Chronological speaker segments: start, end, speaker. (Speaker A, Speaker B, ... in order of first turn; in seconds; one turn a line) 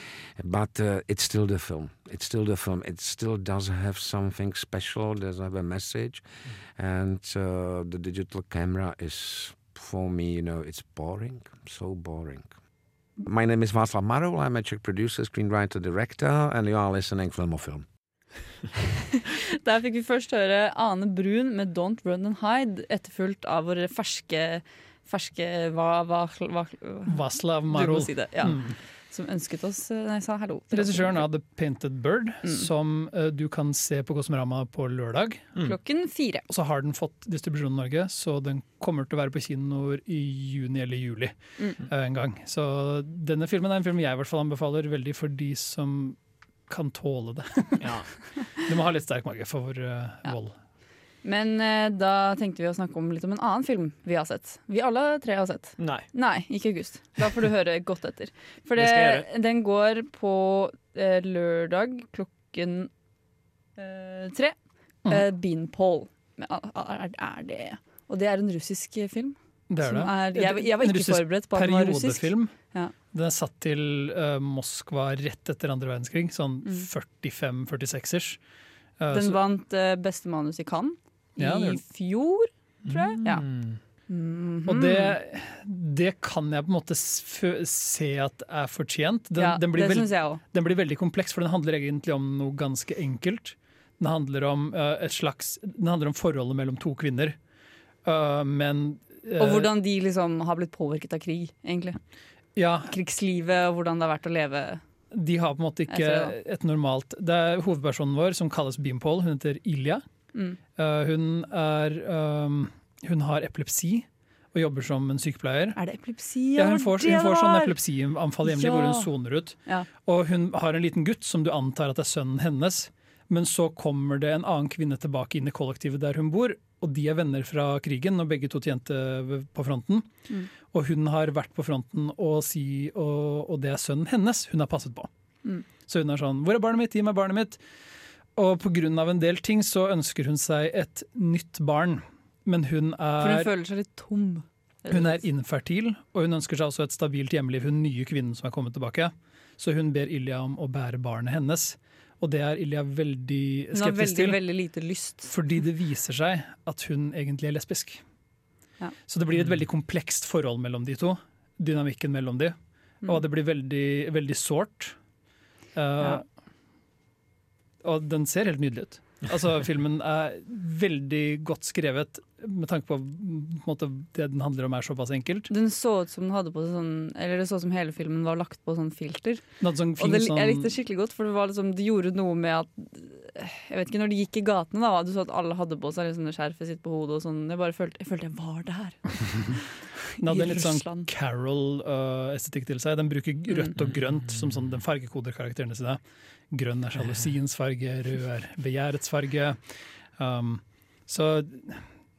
Speaker A: 0.4-6.2
Speaker A: 6.8-12.5
Speaker A: 13.2-17.9
Speaker B: 19.2-27.2
Speaker C: 27.1-28.8
Speaker B: 27.7-31.2
Speaker C: 30.7-35.5
Speaker B: 35.6-36.5
Speaker C: 36.5-48.0
Speaker D: 47.8-48.1
Speaker C: 48.6-50.5
Speaker B: 51.2-62.9
Speaker D: 55.8-56.1
Speaker D: 58.8-59.3
Speaker B: 63.8-64.5
Speaker B: 65.1-72.9
Speaker C: 69.7-72.5
Speaker C: 73.1-78.4
Speaker C: 79.0-79.4
Speaker B: 79.1-83.5
Speaker C: 81.4-81.8
Speaker D: 82.8-83.8
Speaker B: 84.1-85.2
Speaker C: 84.7-97.4
Speaker B: 89.4-90.4
Speaker C: 98.0-99.7
Speaker B: 99.4-102.0
Speaker C: 102.6-102.9
Speaker B: 102.8-104.8
Speaker C: 105.1-110.0
Speaker B: 105.9-106.3
Speaker C: 110.8-115.8
Speaker B: 115.8-117.8
Speaker C: 116.6-130.1
Speaker B: 118.4-119.1
Speaker C: 130.7-135.1
Speaker C: 135.8-137.6
Speaker C: 138.4-143.5
Speaker B: 143.2-145.2
Speaker C: 144.9-154.4
Speaker B: 153.7-155.3
Speaker C: 155.3-158.0
Speaker C: 159.1-165.0
Speaker C: 165.7-166.2
Speaker C: 167.8-175.5
Speaker B: 175.5-191.1
Speaker C: 179.6-180.7
Speaker C: 190.2-196.0
Speaker C: 196.5-199.6
Speaker C: 200.2-201.8